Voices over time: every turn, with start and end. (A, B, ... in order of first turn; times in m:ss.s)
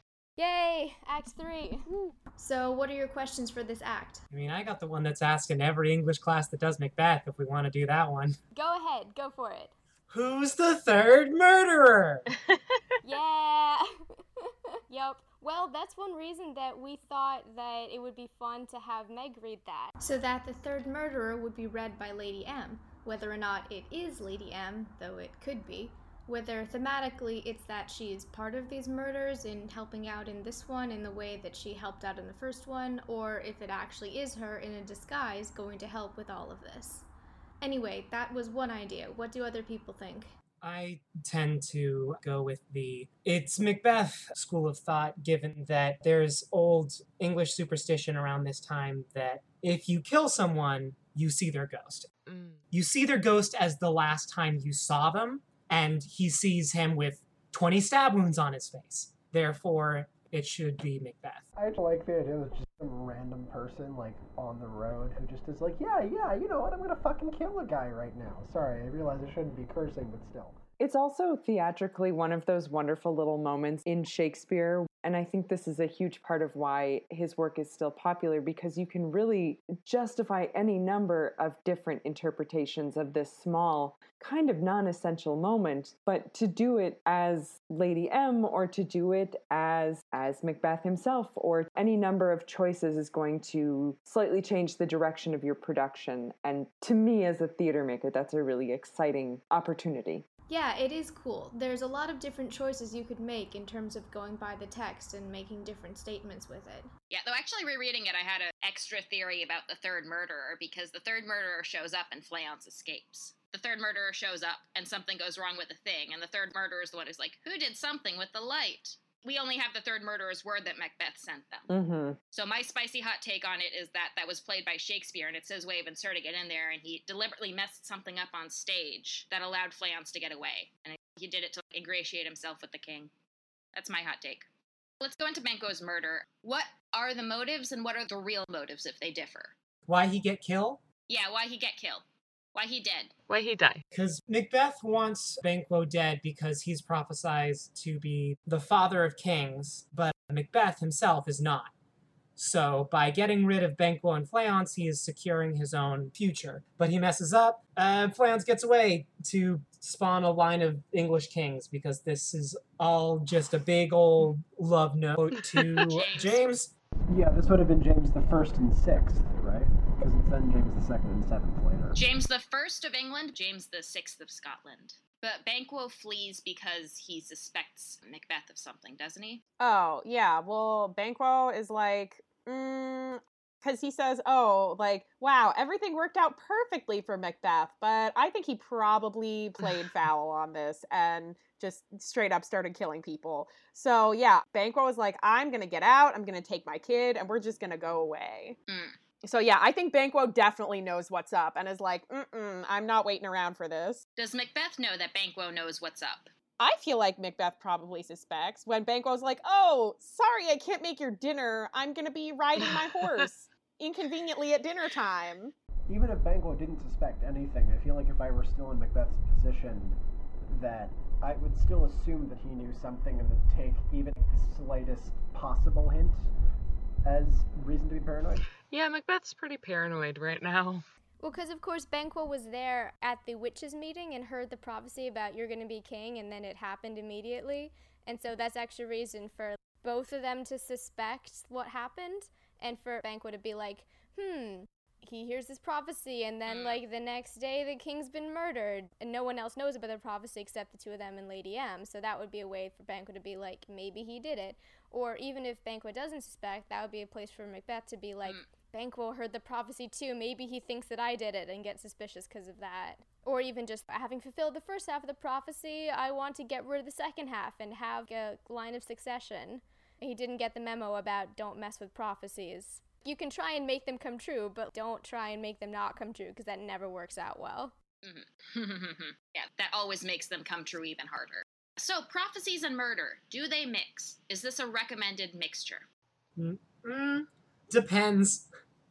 0:00.4-0:01.9 A
0:02.3-0:04.2 B
0:04.3-0:08.4 C
0:08.5-0:09.8 A
0:10.1-0:12.2 C
0:13.0-0:13.9 A
0:14.4-0:20.0 A
0:20.0-0:37.1 B
0:37.6-0:40.3 B
0:40.6-0:52.1 C
0:52.3-0:52.6 D
0:52.7-1:01.5 C
1:01.6-1:10.6 E
1:10.8-1:40.2 F
1:40.5-1:46.9 B
1:47.1-2:01.7 G
2:01.7-2:02.2 F
2:02.3-2:13.1 G
2:13.8-2:14.5 G
2:15.0-2:19.6 G
2:19.9-2:20.8 C
2:21.1-2:22.0 G
2:22.6-2:23.1 G
2:23.3-2:23.8 D
2:23.9-2:31.7 C
2:32.4-2:46.7 C
2:45.9-2:46.4 G
2:47.1-2:52.0 E
2:52.0-2:59.4 G
2:59.6-3:18.6 H
3:18.7-3:19.0 G
3:19.2-3:24.0 H
3:24.2-3:26.3 G
3:26.6-3:35.5 H
3:35.9-3:46.3 E
3:47.0-3:48.5 E
3:48.7-3:50.8 D
3:51.2-4:37.7 A
4:06.5-4:06.8 G
4:38.0-4:45.9 G
4:46.4-4:48.5 C